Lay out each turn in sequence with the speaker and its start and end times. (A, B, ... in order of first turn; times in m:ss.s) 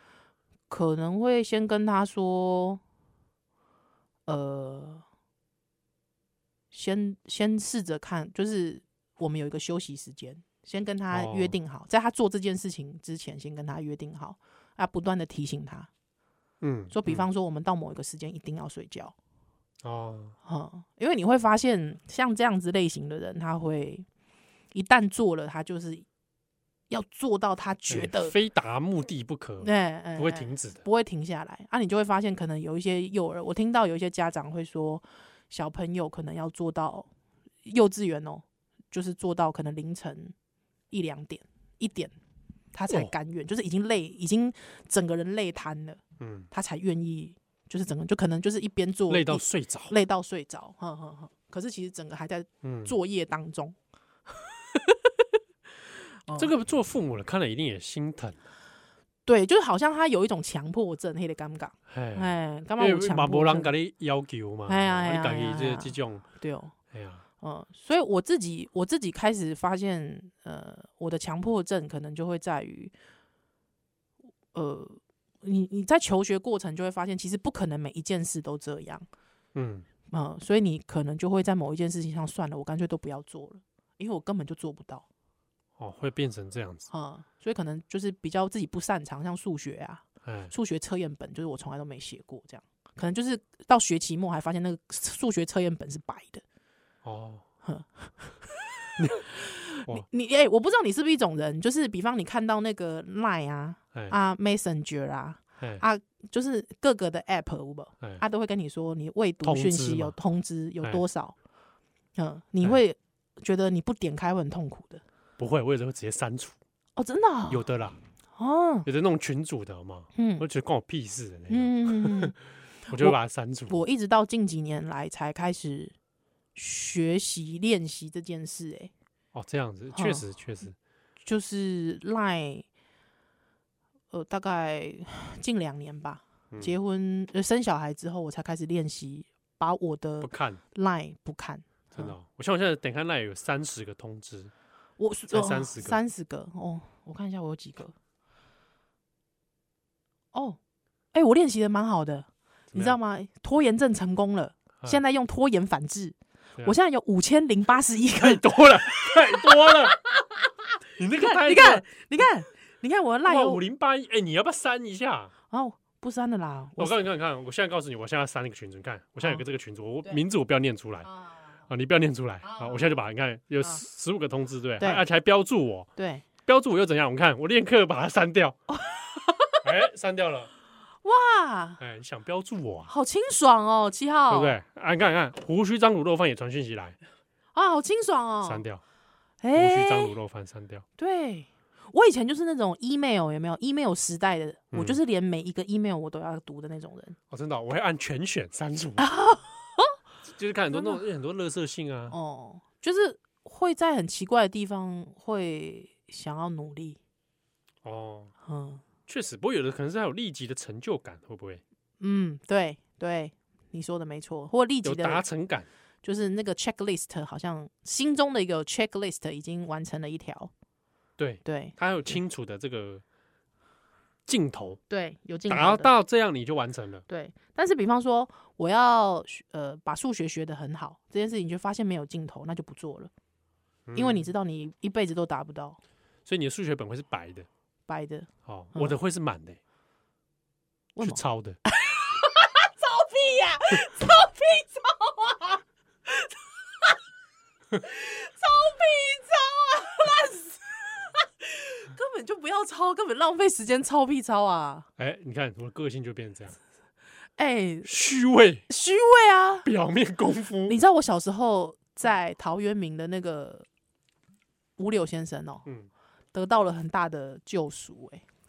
0:00.7-0:02.8 A
0:04.3-0:05.0 A
0:06.7-0:15.9 A
0:11.1-0:11.6 B
0:16.6-0:17.3 B
0:16.9-0:19.2 A
0:19.8-0:20.4 B
0:20.4-0:24.1 A
0:24.7-0:26.1 A
0:26.9-0:28.3 A
0:27.9-0:30.8 B
0:29.6-0:37.1 A
0:37.6-0:40.3 A
0:40.9-0:42.1 A
0:42.7-0:53.8 A
0:46.2-0:46.5 B
0:49.1-0:49.9 B
0:52.6-0:52.9 B
0:54.4-0:55.1 A
0:56.3-0:56.5 A
0:56.4-0:58.4 B
0:59.3-1:03.7 A
1:01.9-1:06.2 B
1:04.7-1:06.8 A
1:06.9-1:07.2 B
1:07.4-1:12.9 A
1:14.5-1:19.1 A
1:19.6-1:19.8 B
1:20.1-1:25.0 A
1:25.8-1:26.9 B
1:26.9-1:36.4 A
1:30.2-1:30.5 B
1:37.0-1:37.4 B
1:37.6-1:38.6 A
1:39.1-1:51.4 A
1:49.4-1:50.2 B
1:52.2-1:55.0 A
1:55.4-1:56.5 B
1:57.0-1:57.7 A
1:57.5-1:58.0 B
1:58.4-1:58.9 A
1:58.9-2:02.4 B
2:00.2-2:00.4 A
2:01.5-2:02.3 A
2:02.9-2:03.2 A
2:02.9-2:03.8 B
2:03.7-2:06.0 A
2:06.6-2:08.9 A
2:09.3-2:10.8 B
2:10.0-2:10.3 A
2:11.2-2:12.7 A
2:14.1-2:22.2 A
2:16.5-2:16.8 B
2:20.2-2:20.6 B
2:22.0-2:24.5 B
2:25.0-2:27.9 A
2:25.3-2:26.0 B
2:30.3-2:30.6 A
2:31.1-2:40.0 A
2:32.7-2:33.0 B
2:38.2-2:40.0 B
2:41.0-2:41.9 B
2:41.1-2:43.6 A
2:43.2-2:45.3 B
2:45.5-2:47.0 A
2:46.8-2:51.1 B
2:51.1-2:51.4 A
2:51.7-2:55.9 B
2:52.4-2:53.0 A
2:56.0-2:56.2 A
2:56.5-2:58.6 B
2:58.7-2:59.6 A
2:59.6-3:00.5 B
3:01.0-3:01.8 A
3:01.8-3:02.9 B
3:02.9-3:04.6 A
3:04.3-3:07.0 B
3:07.5-3:08.6 A
3:08.4-3:08.8 B
3:09.4-3:10.1 A
3:09.5-3:10.8 B
3:11.0-3:17.2 A
3:14.7-3:15.0 B
3:17.3-3:19.1 B
3:19.0-3:20.0 A
3:20.2-3:22.2 B
3:20.7-3:21.0 A
3:22.1-3:27.0 A
3:27.8-3:28.3 B
3:28.4-3:28.8 A
3:29.1-3:31.6 B
3:32.0-3:35.2 A
3:34.8-3:35.7 B
3:36.0-3:40.5 A
3:41.2-3:43.0 B
3:41.4-3:42.2 A
3:44.3-3:44.8 B
3:44.9-3:45.9 A
3:45.5-3:47.0 B
3:47.1-3:53.1 A
3:53.9-3:54.3 B
3:54.0-3:55.8 A
3:56.3-3:57.5 B
3:57.9-3:59.0 A
3:58.5-3:59.6 B
4:01.0-4:06.4 A
4:01.0-4:01.6 B
4:07.8-4:14.9 A
4:15.0-4:16.6 B
4:17.4-4:17.9 A
4:17.8-4:18.6 B
4:18.7-4:19.7 A
4:19.6-4:20.8 B
4:20.7-4:23.7 A
4:24.8-4:25.7 A
4:26.3-4:28.2 A